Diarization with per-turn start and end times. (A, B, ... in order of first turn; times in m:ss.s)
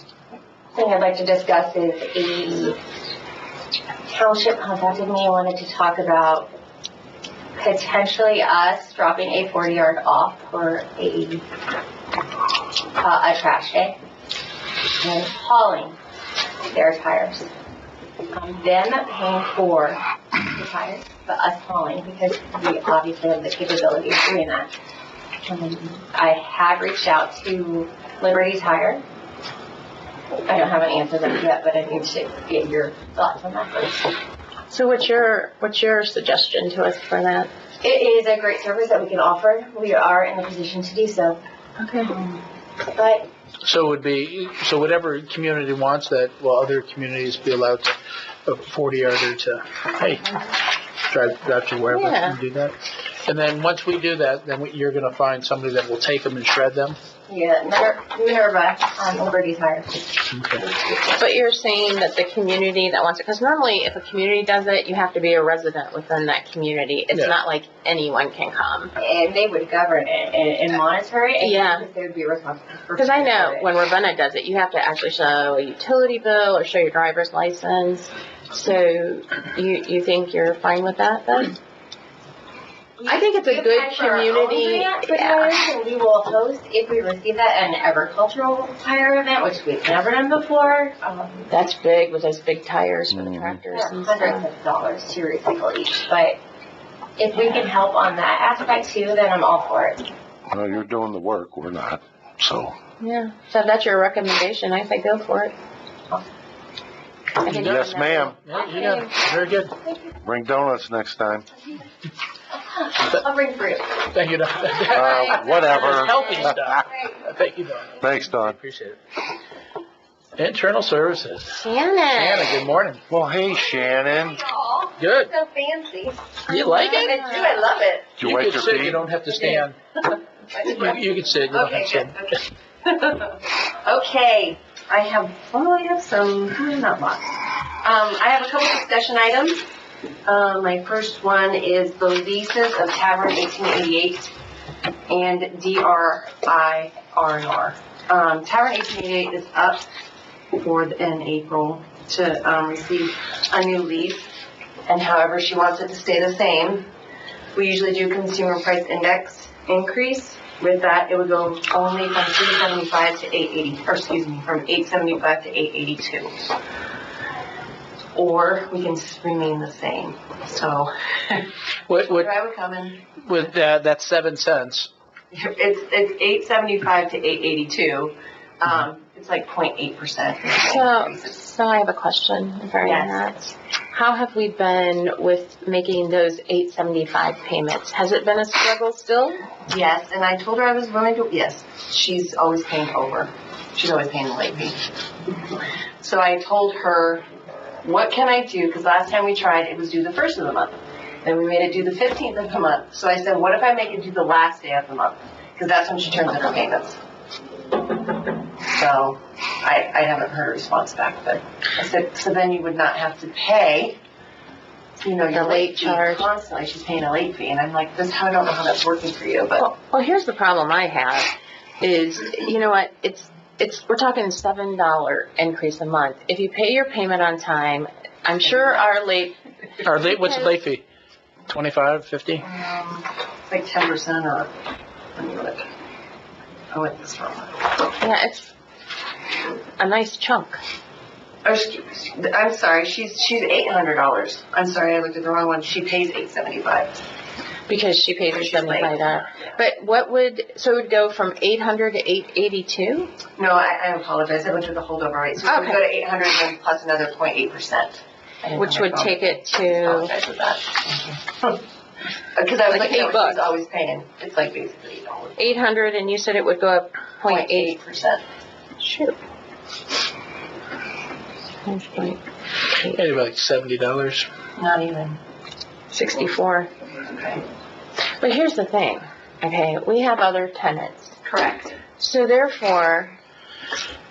0:00.7-0:02.8 A
0:04.1-0:06.5 A
0:07.6-0:11.4 A
0:13.0-0:14.0 A
0:15.0-0:16.0 A
0:16.7-0:17.5 A
0:18.3-0:24.7 A
0:25.4-0:29.0 A
0:30.4-0:34.1 A
0:34.7-0:37.5 B
0:37.8-0:41.4 A
0:41.8-0:42.4 B
0:42.8-0:43.3 A
0:43.6-0:50.5 C
0:51.0-0:57.0 C
0:51.9-0:52.4 B
0:57.3-1:00.1 A
1:00.3-1:00.6 C
1:00.7-1:01.1 A
1:01.1-1:08.9 B
1:09.0-1:13.7 A
1:11.4-1:11.9 B
1:13.0-1:21.6 B
1:23.0-1:31.5 A
1:23.0-1:25.5 B
1:31.5-1:34.5 B
1:33.1-1:33.6 D
1:33.7-1:36.4 A
1:37.2-1:40.0 A
1:40.5-1:42.7 D
1:43.0-1:45.5 B
1:47.4-1:49.2 B
1:47.4-1:49.7 C
1:47.5-1:48.4 D
1:50.2-1:51.5 D
1:52.5-1:54.0 A
1:54.1-1:59.0 C
1:54.9-1:56.5 B
1:54.9-1:56.5 D
1:56.3-1:57.2 A
1:58.0-1:58.6 D
2:00.4-2:01.6 C
2:01.5-2:02.5 B
2:02.1-2:03.0 C
2:03.1-2:04.4 D
2:03.5-2:08.2 A
2:05.0-2:05.3 C
2:06.5-2:07.1 C
2:06.5-2:07.7 B
2:08.2-2:09.0 D
2:08.2-2:09.8 C
2:09.3-2:19.6 A
2:10.6-2:12.2 C
2:20.2-2:24.3 A
2:25.1-2:29.8 A
2:30.6-2:34.3 A
2:34.8-2:36.9 A
2:37.5-2:46.3 A
2:48.1-2:53.1 A
2:51.9-2:52.3 C
2:53.2-2:54.9 C
2:55.3-3:01.4 A
3:00.6-3:09.5 B
3:02.8-3:03.2 A
3:09.6-3:14.8 A
3:16.0-3:17.2 A
3:17.8-3:27.0 A
3:28.7-3:34.0 A
3:35.0-3:39.6 A
3:35.3-3:36.3 B
3:39.6-3:50.5 B
3:48.4-3:48.9 A
3:49.8-3:50.8 C
3:51.5-3:52.4 C
3:52.4-3:54.5 A
3:55.2-3:55.7 A
3:56.7-3:57.7 A
3:58.0-3:58.5 B
3:59.8-4:00.6 B
4:01.4-4:07.0 A
4:07.7-4:13.1 B
4:08.3-4:09.6 A
4:13.4-4:21.6 A
4:15.4-4:15.8 B
4:18.5-4:20.1 B
4:22.3-4:25.6 A
4:22.7-4:23.4 B
4:25.4-4:27.8 B
4:27.3-4:28.2 A
4:28.8-4:29.2 B
4:31.6-4:32.2 B
4:32.7-4:33.0 B
4:32.9-4:34.3 C
4:34.6-4:35.2 A
4:35.9-4:36.7 B
4:37.1-4:37.4 A
4:38.2-4:41.2 B
4:41.2-4:41.8 A
4:42.0-4:43.2 B